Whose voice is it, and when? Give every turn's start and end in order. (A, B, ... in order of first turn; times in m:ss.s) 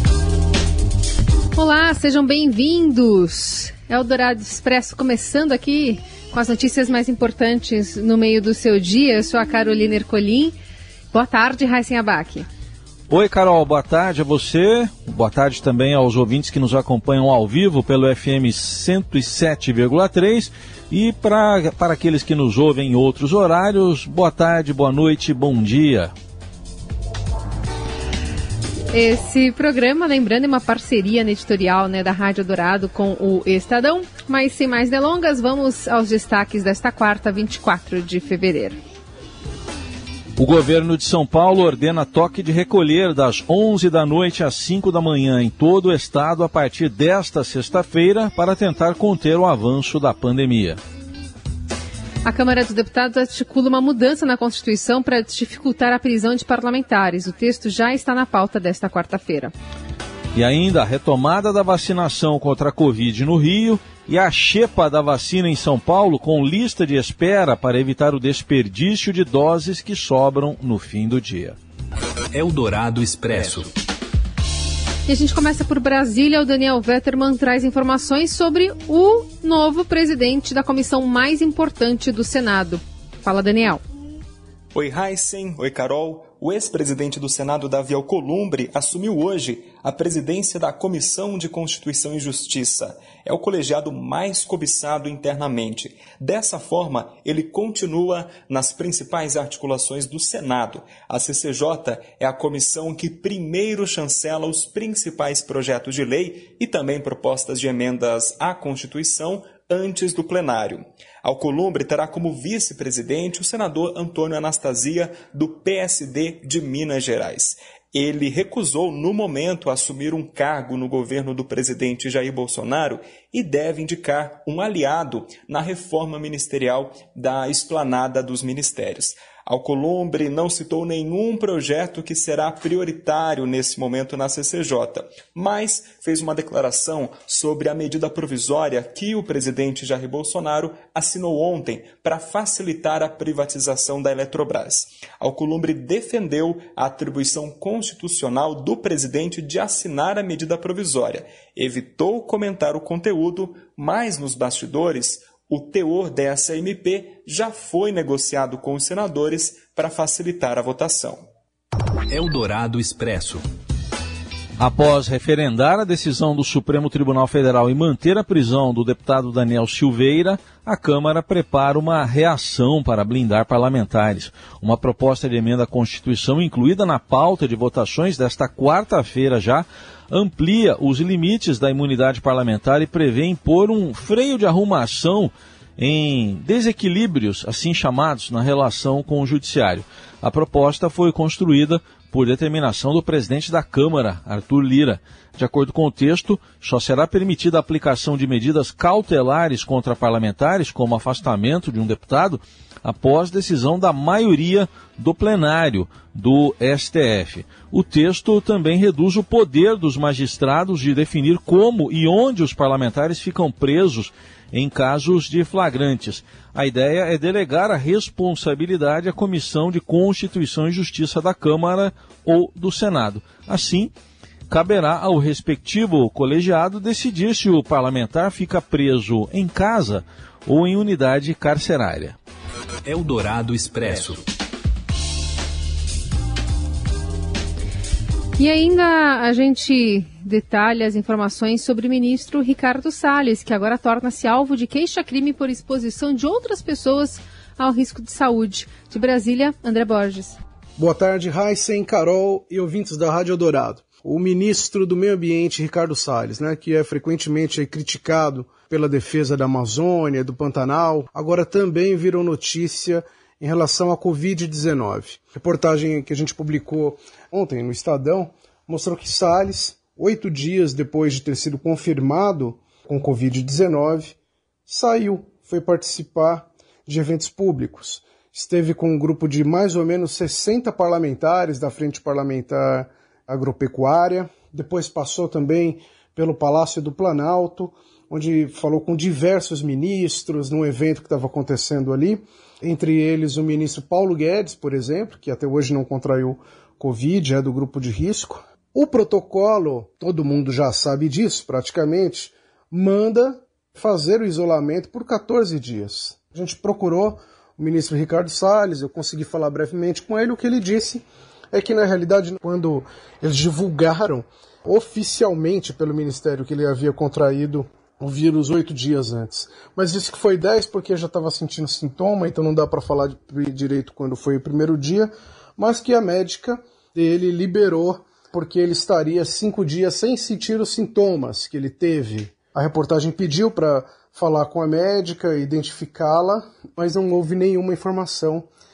0:01.5-0:10.5 A
0:11.1-0:12.4 A
0:13.1-0:26.1 B
0:28.9-0:38.8 A
0:40.4-0:50.8 B
0:52.2-0:59.5 A
1:00.3-1:11.6 B
1:12.3-1:13.7 C
1:15.1-1:23.8 A
1:24.7-2:41.3 D
2:42.1-2:43.4 C
2:44.6-3:43.9 B
3:44.5-3:52.2 B
3:52.8-3:54.2 C
3:58.4-4:10.4 A
4:10.8-4:34.1 E
4:34.7-5:38.5 E